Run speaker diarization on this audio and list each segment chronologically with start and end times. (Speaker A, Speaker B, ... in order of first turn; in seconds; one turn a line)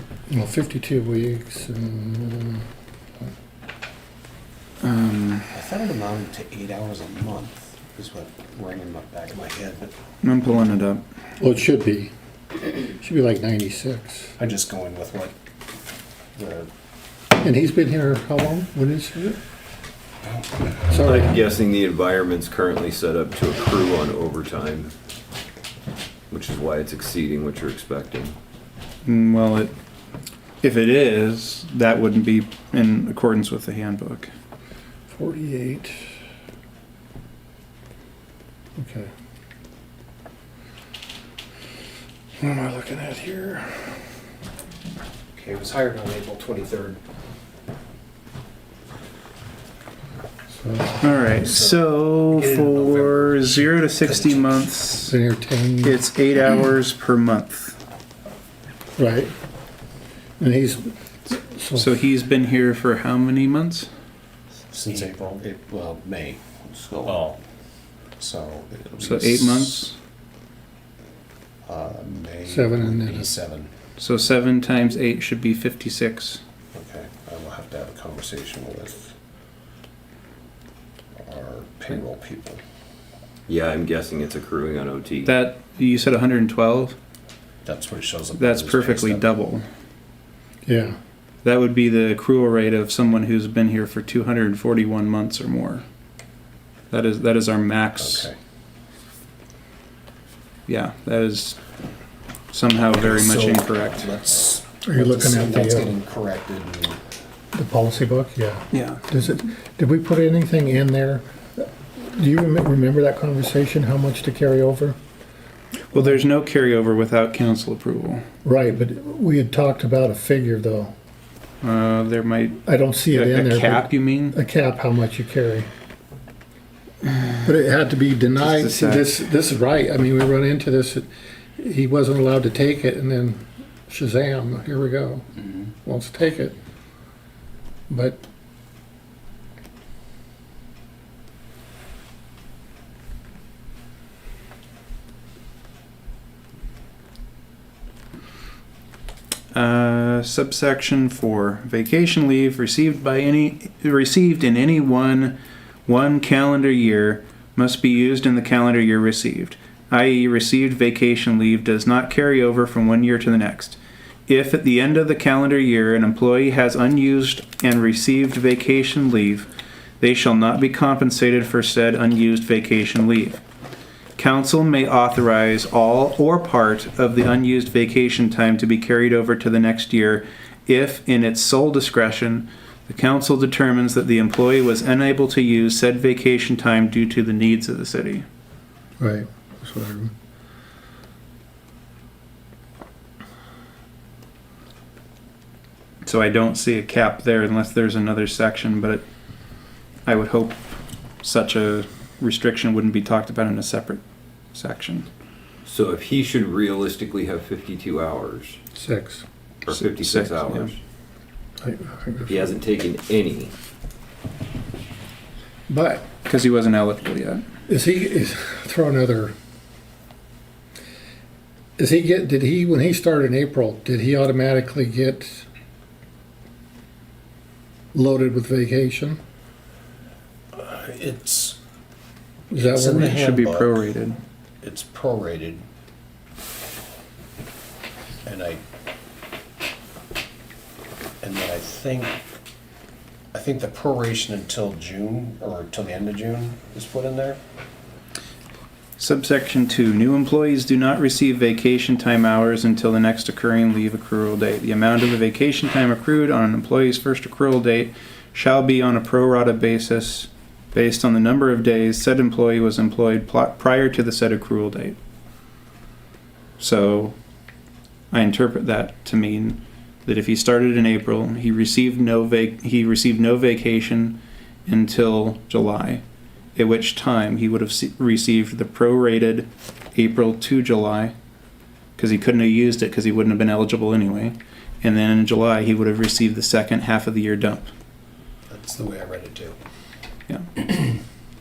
Speaker A: 0.3-2.7
Speaker B: 4.8-5.5
Speaker C: 5.5-9.9
Speaker B: 10.2-11.0
Speaker A: 11.4-12.1
Speaker A: 12.8-14.4
Speaker C: 14.4-15.4
Speaker C: 16.4-16.7
Speaker A: 17.4-19.4
Speaker A: 20.9-21.4
Speaker D: 20.9-24.9
Speaker D: 26.3-28.4
Speaker B: 29.1-29.7
Speaker B: 30.6-34.3
Speaker A: 35.1-36.1
Speaker A: 38.8-39.1
Speaker A: 42.4-44.0
Speaker C: 45.4-47.0
Speaker A: 50.5-51.2
Speaker B: 51.0-55.1
Speaker C: 51.4-54.6
Speaker A: 55.1-56.0
Speaker B: 55.8-57.8
Speaker A: 59.0-59.3
Speaker A: 60.4-62.0
Speaker B: 61.8-63.9
Speaker C: 64.7-67.4
Speaker C: 68.2-69.9
Speaker B: 69.0-70.0
Speaker C: 71.7-73.7
Speaker A: 72.5-73.2
Speaker B: 74.0-76.4
Speaker C: 76.7-79.1
Speaker C: 81.2-82.6
Speaker D: 83.5-85.3
Speaker B: 85.2-87.0
Speaker C: 87.6-89.3
Speaker B: 88.4-89.7
Speaker A: 90.7-91.0
Speaker B: 91.4-95.8
Speaker B: 96.9-98.3
Speaker C: 98.0-98.4
Speaker B: 100.7-101.6
Speaker B: 102.5-104.1
Speaker C: 102.9-107.0
Speaker A: 104.8-105.9
Speaker A: 107.5-115.0
Speaker B: 108.7-109.0
Speaker B: 115.9-118.2
Speaker A: 118.4-120.9
Speaker B: 121.6-124.4
Speaker A: 122.7-125.7
Speaker A: 127.4-135.3
Speaker B: 128.4-129.1
Speaker A: 135.8-136.6
Speaker A: 137.9-138.2
Speaker B: 149.5-169.5
Speaker B: 170.0-173.4
Speaker B: 174.2-188.3
Speaker A: 189.0-190.1
Speaker B: 196.0-199.1
Speaker B: 200.1-200.6
Speaker B: 201.2-204.0
Speaker B: 204.5-205.1
Speaker D: 205.7-208.6
Speaker A: 208.8-209.2
Speaker D: 209.7-210.8
Speaker B: 209.7-210.7
Speaker A: 211.6-212.4
Speaker D: 212.3-213.5
Speaker A: 215.7-216.1
Speaker B: 216.2-217.4
Speaker A: 217.7-219.3
Speaker A: 221.8-225.5
Speaker A: 227.9-229.2
Speaker C: 230.5-231.6
Speaker A: 232.5-233.2
Speaker C: 232.6-234.0
Speaker B: 232.9-234.2
Speaker C: 234.6-235.6
Speaker C: 238.2-238.6
Speaker C: 241.2-242.2
Speaker C: 243.3-247.4
Speaker B: 249.0-265.0
Speaker B: 266.6-267.1
Speaker B: 268.1-276.0
Speaker B: 276.6-281.1
Speaker B: 282.0-287.7
Speaker C: 288.5-289.6
Speaker B: 290.3-290.7